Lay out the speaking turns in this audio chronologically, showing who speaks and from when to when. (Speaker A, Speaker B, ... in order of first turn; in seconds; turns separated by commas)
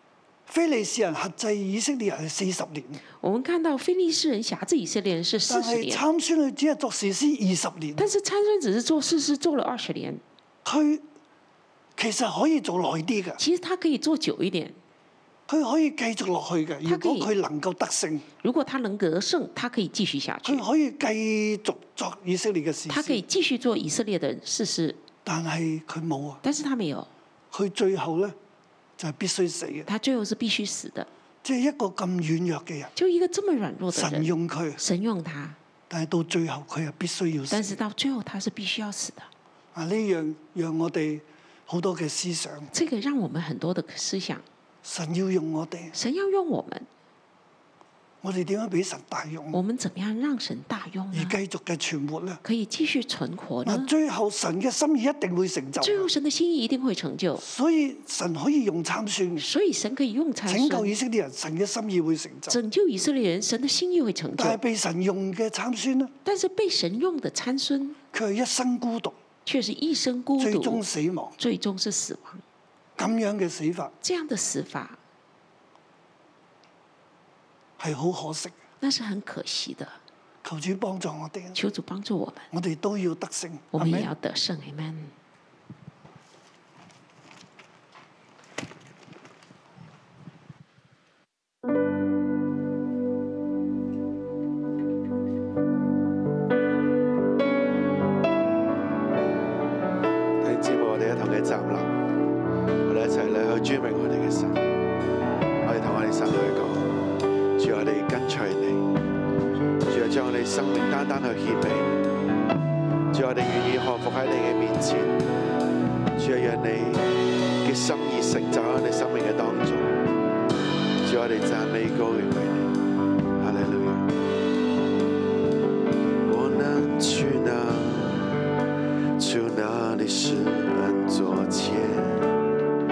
Speaker A: 0.5-3.0, Speaker B: 3.2-6.0, Speaker A: 5.5-8.1, Speaker B: 8.0-10.2, Speaker A: 10.6-11.0, Speaker A: 11.9-13.4, Speaker B: 13.4-14.8, Speaker A: 15.5-18.2, Speaker B: 16.8-17.3, Speaker B: 18.4-20.6, Speaker A: 20.4-23.2, Speaker B: 22.9-25.0, Speaker A: 25.2-26.4, Speaker B: 26.4-27.1, Speaker A: 27.5-28.4, Speaker A: 29.0-29.9, Speaker B: 29.9-31.1, Speaker A: 31.4-32.9, Speaker B: 33.0-35.6, Speaker A: 33.9-34.8, Speaker A: 35.9-37.8, Speaker B: 37.5-39.3, Speaker A: 39.7-42.7, Speaker B: 42.7-44.4, Speaker A: 44.8-46.0, Speaker B: 45.9-46.9, Speaker A: 48.2-49.6, Speaker B: 49.5-51.4, Speaker A: 51.1-52.4, Speaker B: 52.4-53.9, Speaker A: 53.6-56.1, Speaker B: 55.8-57.4, Speaker A: 57.4-59.5, Speaker B: 59.4-60.9, Speaker A: 60.5-62.6, Speaker B: 62.5-64.6, Speaker A: 64.4-66.1, Speaker B: 66.2-68.0, Speaker A: 68.1-69.2, Speaker B: 69.5-70.8, Speaker A: 70.4-71.3, Speaker B: 71.4-72.4, Speaker A: 73.0-73.9, Speaker B: 74.0-75.0, Speaker A: 77.8-78.5, Speaker B: 78.8-80.0, Speaker A: 80.4-81.6, Speaker B: 81.5-82.5, Speaker A: 82.5-84.1, Speaker B: 83.7-85.1, Speaker C: 100.4-101.9, Speaker C: 102.8-104.6, Speaker C: 105.6-107.0, Speaker C: 107.6-108.9, Speaker C: 109.9-112.0, Speaker C: 113.1-115.2, Speaker C: 116.2-117.1, Speaker C: 117.6-119.9, Speaker C: 121.0-122.8, Speaker C: 123.4-124.1, Speaker C: 126.2-128.3, Speaker C: 129.2-132.3